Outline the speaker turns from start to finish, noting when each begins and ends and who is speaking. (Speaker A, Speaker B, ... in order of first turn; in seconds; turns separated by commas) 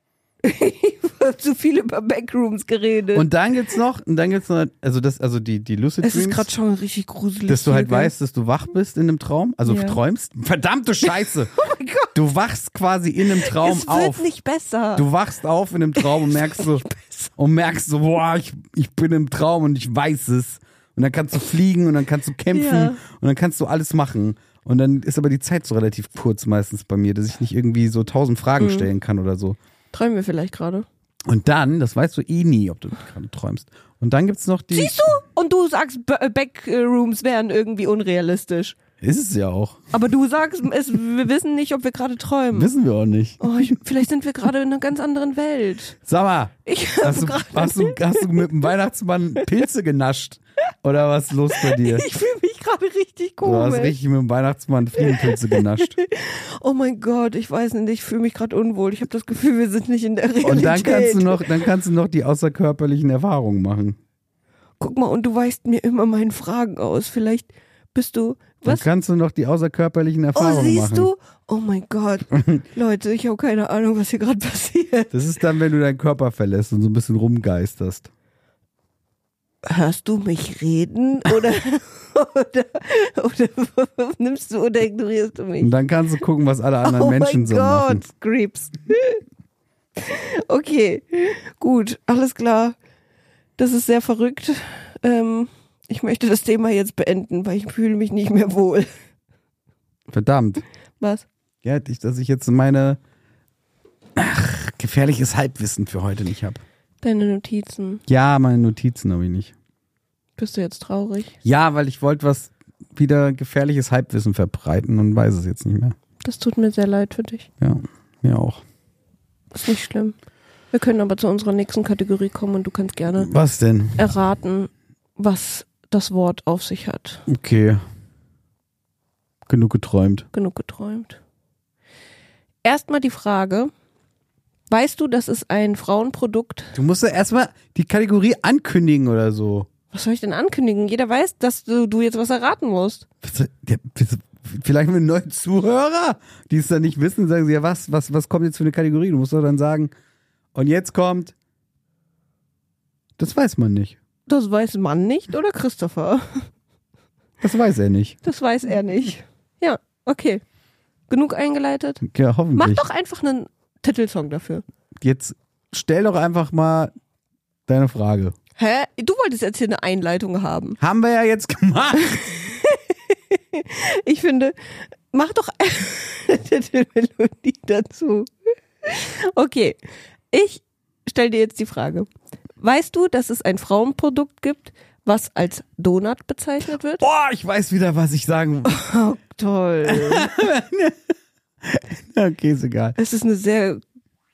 Speaker A: 0.4-3.3, Speaker B: 3.1-6.5, Speaker A: 6.0-8.1, Speaker B: 7.5-11.5, Speaker A: 9.7-10.0, Speaker A: 11.5-12.2, Speaker B: 12.1-14.3, Speaker A: 13.3-15.1, Speaker B: 15.0-16.9, Speaker A: 16.0-17.3, Speaker B: 17.4-29.6, Speaker A: 22.5-23.0, Speaker A: 28.6-28.9, Speaker A: 29.9-30.9, Speaker B: 31.3-35.2, Speaker A: 34.7-38.8, Speaker B: 39.0-39.9, Speaker A: 39.9-42.7, Speaker B: 42.5-43.4, Speaker A: 43.4-46.0, Speaker B: 46.0-52.1, Speaker A: 46.7-48.5, Speaker A: 51.5-54.0, Speaker B: 53.4-56.0, Speaker A: 55.0-61.7, Speaker B: 60.4-64.0, Speaker A: 64.8-68.9, Speaker B: 68.7-71.1, Speaker A: 70.3-75.1, Speaker B: 75.1-78.1, Speaker A: 79.6-85.7, Speaker B: 85.6-88.0, Speaker A: 86.8-89.2, Speaker A: 90.0-92.8, Speaker A: 93.6-98.9, Speaker B: 100.1-100.6, Speaker A: 101.0-101.3, Speaker B: 101.6-103.0, Speaker B: 104.2-106.6, Speaker A: 107.0-108.0, Speaker B: 108.1-109.5, Speaker A: 110.4-111.4, Speaker B: 111.4-116.0, Speaker A: 116.2-117.5, Speaker B: 117.6-118.6, Speaker A: 119.5-120.2, Speaker A: 120.7-123.3, Speaker B: 123.2-124.1, Speaker A: 124.0-127.2, Speaker B: 127.3-127.8, Speaker B: 129.5-130.3, Speaker A: 130.3-131.2, Speaker A: 132.6-133.7, Speaker A: 134.7-136.8, Speaker B: 136.7-139.7, Speaker A: 139.9-143.1, Speaker B: 143.2-149.9, Speaker B: 150.6-151.3, Speaker B: 153.2-154.0, Speaker A: 154.3-156.5, Speaker B: 157.4-158.2, Speaker A: 158.2-160.4, Speaker A: 161.1-162.0, Speaker B: 162.0-162.8, Speaker A: 162.6-164.6, Speaker B: 165.0-166.9, Speaker B: 167.7-168.3, Speaker A: 168.6-170.8, Speaker B: 170.8-172.5, Speaker A: 172.0-178.3, Speaker A: 178.8-179.8, Speaker A: 180.3-182.1, Speaker A: 182.6-187.0, Speaker B: 187.0-188.8, Speaker A: 188.7-190.3, Speaker B: 189.8-193.0, Speaker A: 193.0-193.8